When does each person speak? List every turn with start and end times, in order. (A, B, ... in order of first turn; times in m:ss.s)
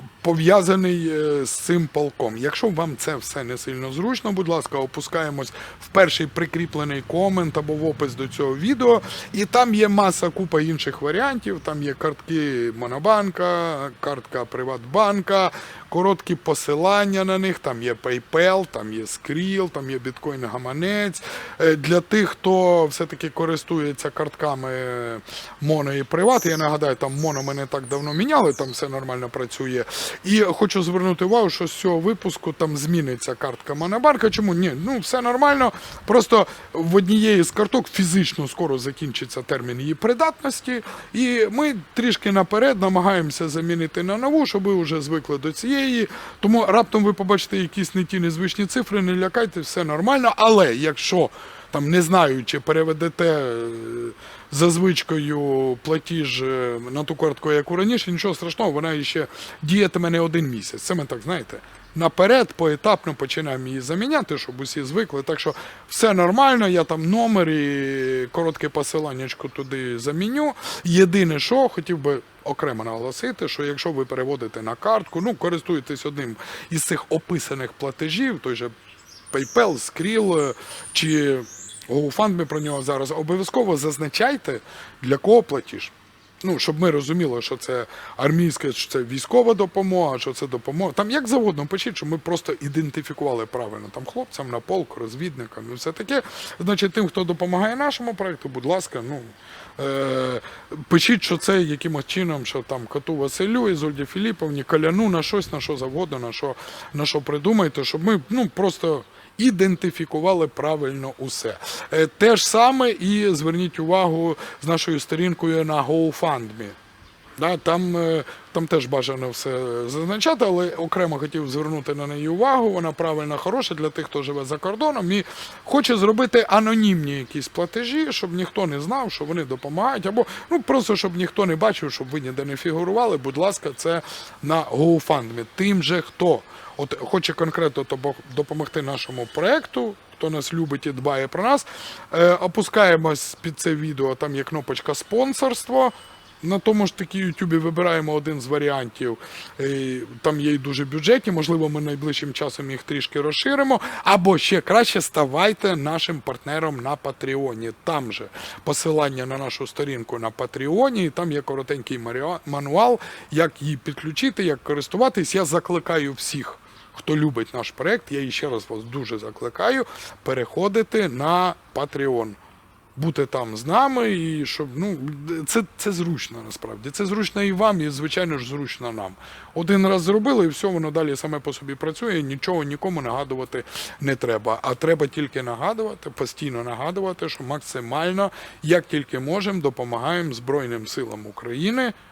0:00.2-1:18.7 A
1:19.3-1:56.8 A
1:57.4-2:52.4 A
2:53.0-3:11.9 A